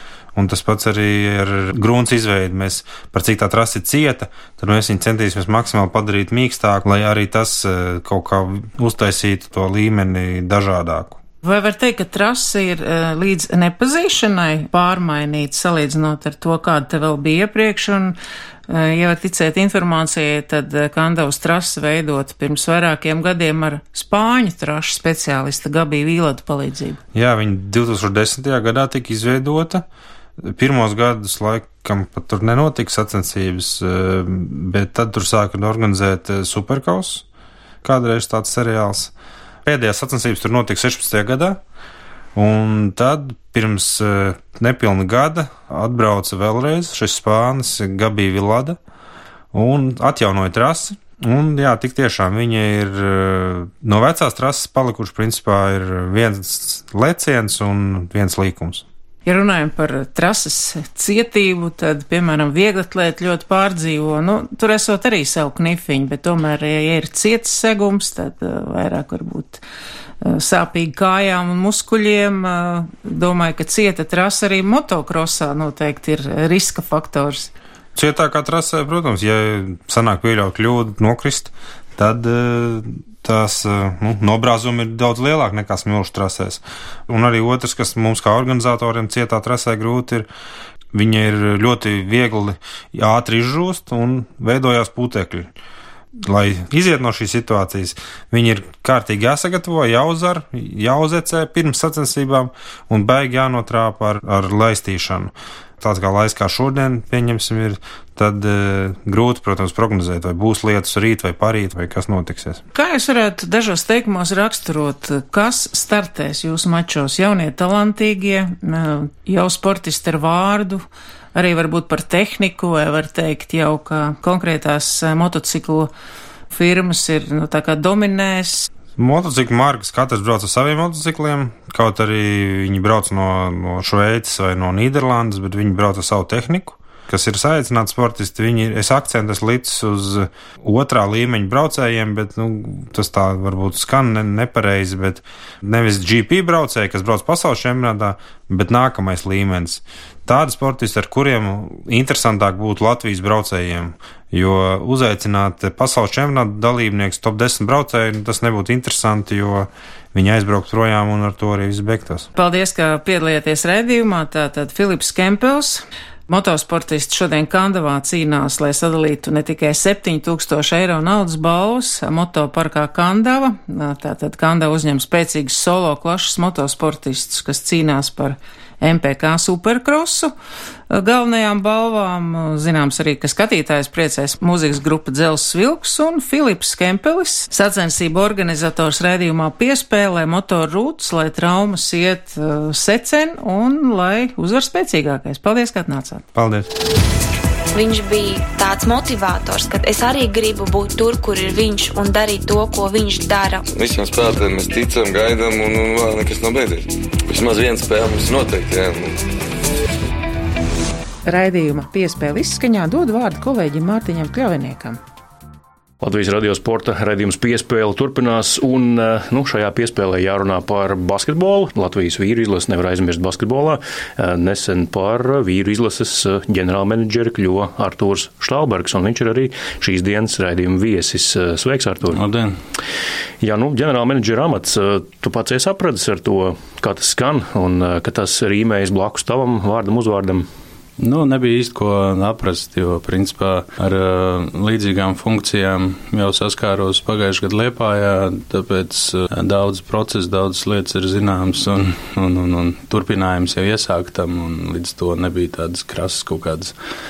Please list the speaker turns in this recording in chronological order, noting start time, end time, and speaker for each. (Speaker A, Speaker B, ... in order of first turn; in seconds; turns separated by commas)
Speaker A: 0.3-11.2, Speaker B: 11.4-18.2, Speaker B: 18.7-27.0, Speaker A: 27.1-29.9, Speaker A: 30.4-37.2, Speaker A: 37.8-39.1, Speaker A: 39.6-41.6, Speaker A: 42.4-48.8, Speaker A: 49.5-58.9, Speaker B: 59.3-69.6, Speaker B: 70.2-77.5, Speaker A: 78.0-90.3, Speaker A: 90.9-95.5, Speaker A: 96.2-112.6, Speaker B: 112.7-120.8, Speaker B: 121.3-125.9, Speaker B: 126.5-128.7, Speaker A: 129.0-162.3, Speaker B: 162.3-180.3, Speaker B: 180.9-196.2, Speaker A: 196.3-196.7, Speaker C: 197.7-203.6, Speaker D: 203.7-209.2, Speaker B: 211.3-215.0, Speaker E: 216.0-232.2, Speaker F: 232.1-232.6, Speaker E: 233.4-240.5, Speaker F: 241.0-256.8